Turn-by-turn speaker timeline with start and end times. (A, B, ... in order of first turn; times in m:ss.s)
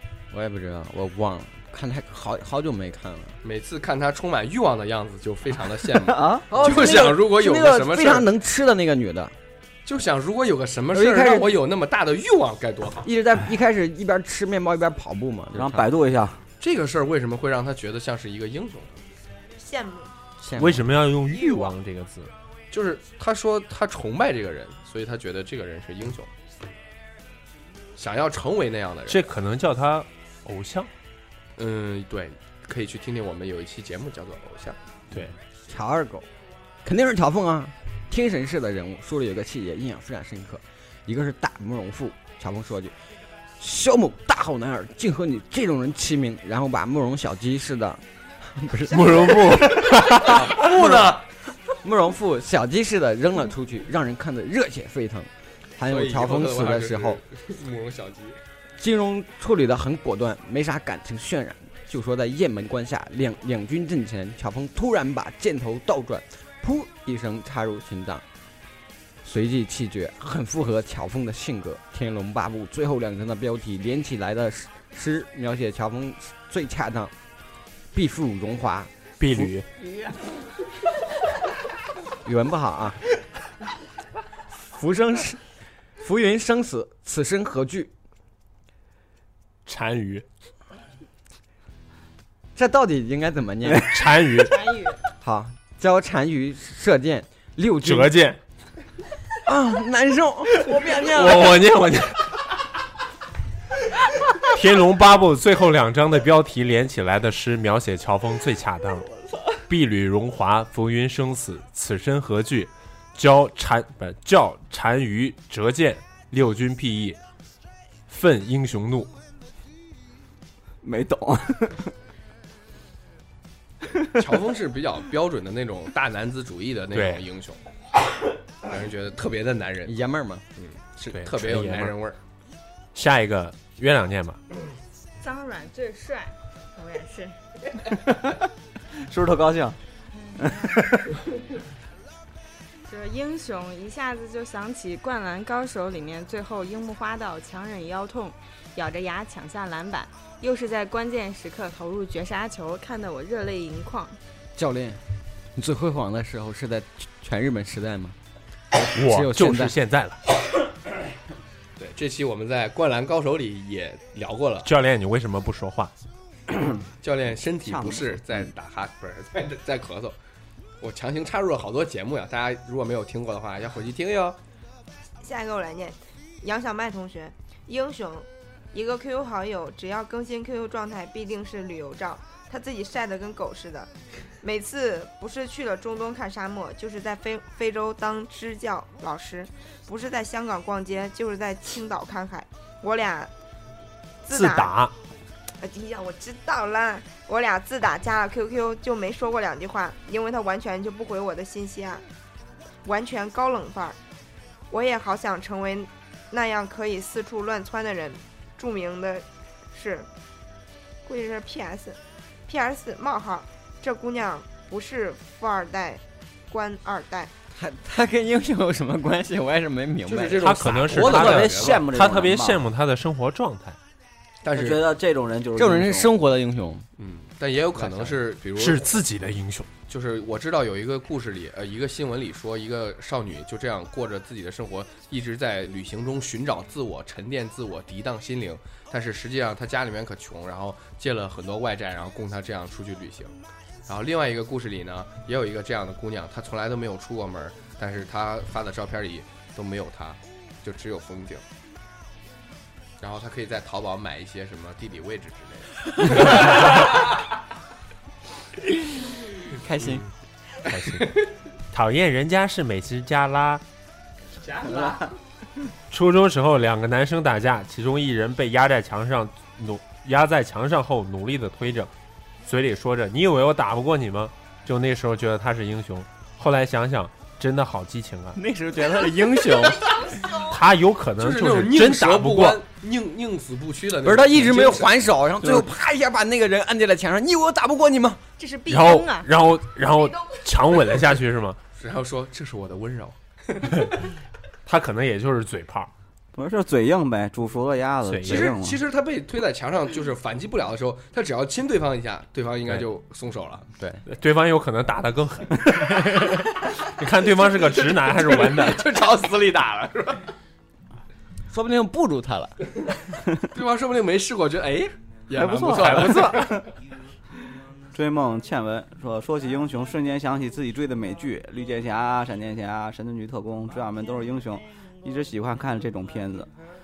0:00.3-0:03.4 A
0:03.4-0:08.3 B
0:06.0-0:06.5 C
0:06.5-0:09.4 A
0:09.8-0:13.1 B
0:10.9-0:11.6 A
0:13.0-0:15.9 A
0:15.5-0:16.4 C
0:16.6-0:19.0 B
0:19.6-0:20.1 D
0:20.4-0:20.9 A
0:20.6-0:22.3 E
0:21.3-0:21.7 D
0:22.7-0:26.3 B
0:28.0-0:29.2 B
0:29.1-0:30.9 E
0:31.6-0:34.8 B
0:35.7-0:36.3 A
0:36.8-0:42.9 A
0:43.6-0:49.6 A
0:48.9-0:50.9 E
0:50.2-0:51.2 B
0:51.8-0:57.2 A
0:55.8-0:58.4 B
0:58.8-1:08.2 A
1:09.2-1:17.1 A
1:17.9-1:19.5 A
1:19.2-1:19.6 E
1:22.2-1:23.0 A
1:24.6-1:25.4 A
1:26.0-1:27.9 A
1:29.6-1:30.2 E
1:32.6-1:33.9 A
1:33.7-1:34.6 E
1:34.4-1:35.0 F
1:35.2-1:38.1 A
1:37.8-1:38.4 E
1:39.4-1:41.5 A
1:40.9-1:42.4 E
1:44.4-1:49.1 E
1:49.6-1:57.2 E
1:58.1-1:59.1 E
2:00.8-2:01.9 C
2:04.1-2:07.6 B
2:06.9-2:07.2 E
2:08.6-2:10.0 B
2:09.8-2:10.4 A
2:10.6-2:12.2 B
2:11.1-2:12.0 E
2:12.9-2:14.4 E
2:15.2-2:17.4 F
2:17.9-2:18.4 C
2:18.9-2:19.8 C
2:20.2-2:20.9 F
2:20.4-2:21.1 C
2:22.8-2:34.2 F
2:34.5-2:35.0 A
2:35.5-2:38.2 A
2:38.7-2:39.7 A
2:38.8-2:40.2 E
2:41.8-2:44.7 B
2:44.6-2:45.9 E
2:47.0-2:50.2 B
2:47.6-2:48.2 C
2:50.8-2:54.4 B
2:55.2-3:13.3 D
3:14.2-3:14.8 D
3:14.3-3:14.9 E
3:15.6-3:22.0 D
3:22.8-3:24.0 D
3:24.7-3:30.1 D
3:31.0-3:37.3 D
3:37.5-3:40.5 A
3:40.1-3:41.8 B
3:40.4-3:43.8 E
3:40.9-3:42.6 C
3:44.4-3:44.8 B
3:44.5-3:46.1 C
3:45.6-3:46.9 A
3:47.0-3:48.9 B
3:47.7-3:48.2 A
3:48.5-3:49.7 E
3:49.9-4:03.3 B
4:03.9-4:11.4 B
4:13.0-4:17.1 B
4:19.6-4:20.0 A
4:20.6-4:23.6 E
4:24.4-4:25.1 B
4:25.9-4:31.9 E
4:32.4-4:38.4 E
4:38.3-4:40.0 A
4:40.2-4:42.6 E
4:41.2-4:44.9 B
4:44.0-4:48.2 A
4:48.4-4:49.3 F
4:48.7-4:51.6 E
4:51.8-4:53.8 B
4:54.6-4:55.9 E
4:56.3-4:58.8 C
4:58.0-4:58.5 E
4:58.2-5:03.7 B
5:03.8-5:04.0 A
5:04.0-5:08.9 E
5:07.5-5:10.3 B
5:11.5-5:12.6 A
5:13.4-5:16.6 B
5:15.3-5:16.6 C
5:17.9-5:26.5 C